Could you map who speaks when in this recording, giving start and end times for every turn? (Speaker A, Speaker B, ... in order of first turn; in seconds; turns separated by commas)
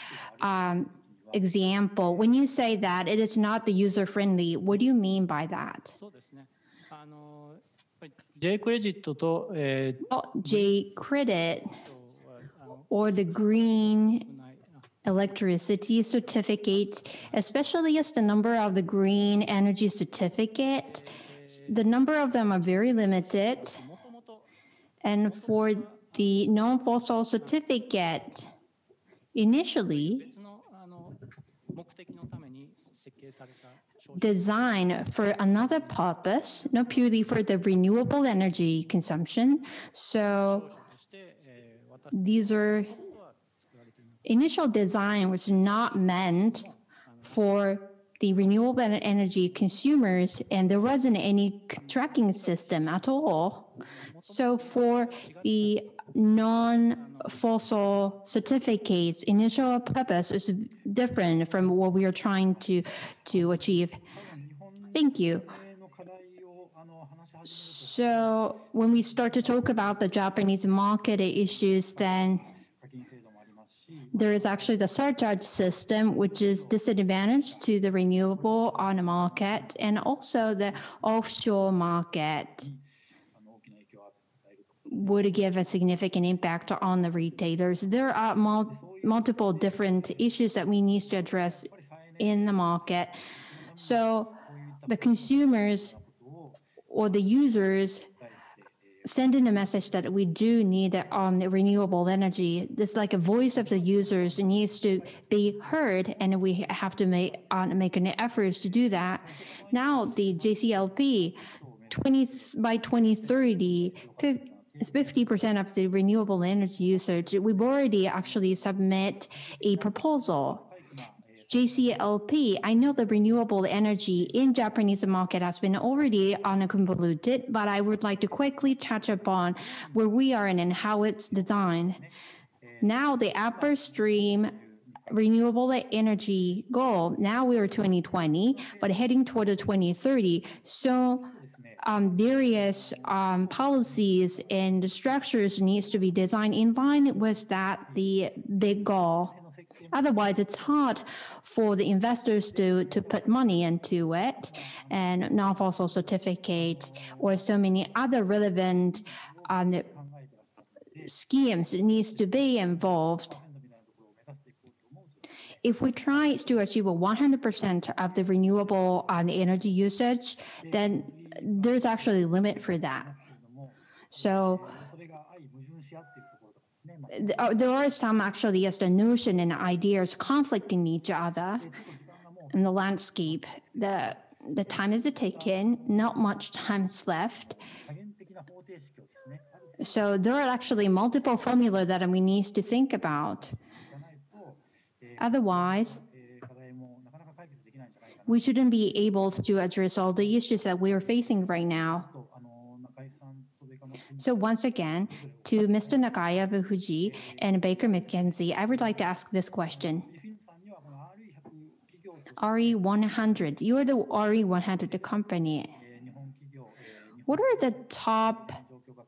Speaker A: 0.4-6.0, Speaker B: 6.0-10.0, Speaker A: 10.1-11.7, Speaker B: 11.8-12.9, Speaker A: 12.9-14.3, Speaker B: 14.3-14.8, Speaker A: 15.1-21.1, Speaker A: 21.7-23.8, Speaker B: 23.8-24.3, Speaker A: 25.0-28.5, Speaker A: 29.4-30.3, Speaker B: 30.2-33.6, Speaker A: 34.1-40.7, Speaker B: 40.6-42.1, Speaker A: 42.1-42.9, Speaker A: 44.2-46.7, Speaker A: 47.2-53.7, Speaker A: 54.2-64.0, Speaker A: 64.9-65.5, Speaker A: 67.5-72.5, Speaker A: 74.1-82.7, Speaker A: 84.9-93.2, Speaker A: 93.8-94.3, Speaker A: 94.9-96.0, Speaker A: 96.9-98.0, Speaker A: 99.0-111.4, Speaker A: 111.9-120.6, Speaker A: 121.5-132.0, Speaker A: 132.8-134.5, Speaker A: 135.1-141.3, Speaker A: 141.8-149.3, Speaker A: 149.9-159.9, Speaker A: 161.0-163.4, Speaker A: 165.6-173.1, Speaker A: 174.1-174.9, Speaker A: 177.1-181.7, Speaker A: 182.5-187.6, Speaker A: 189.8-193.6, Speaker A: 195.2-196.0, Speaker A: 198.3-202.1, Speaker A: 204.2-210.1, Speaker A: 212.4-215.7, Speaker A: 217.3-218.6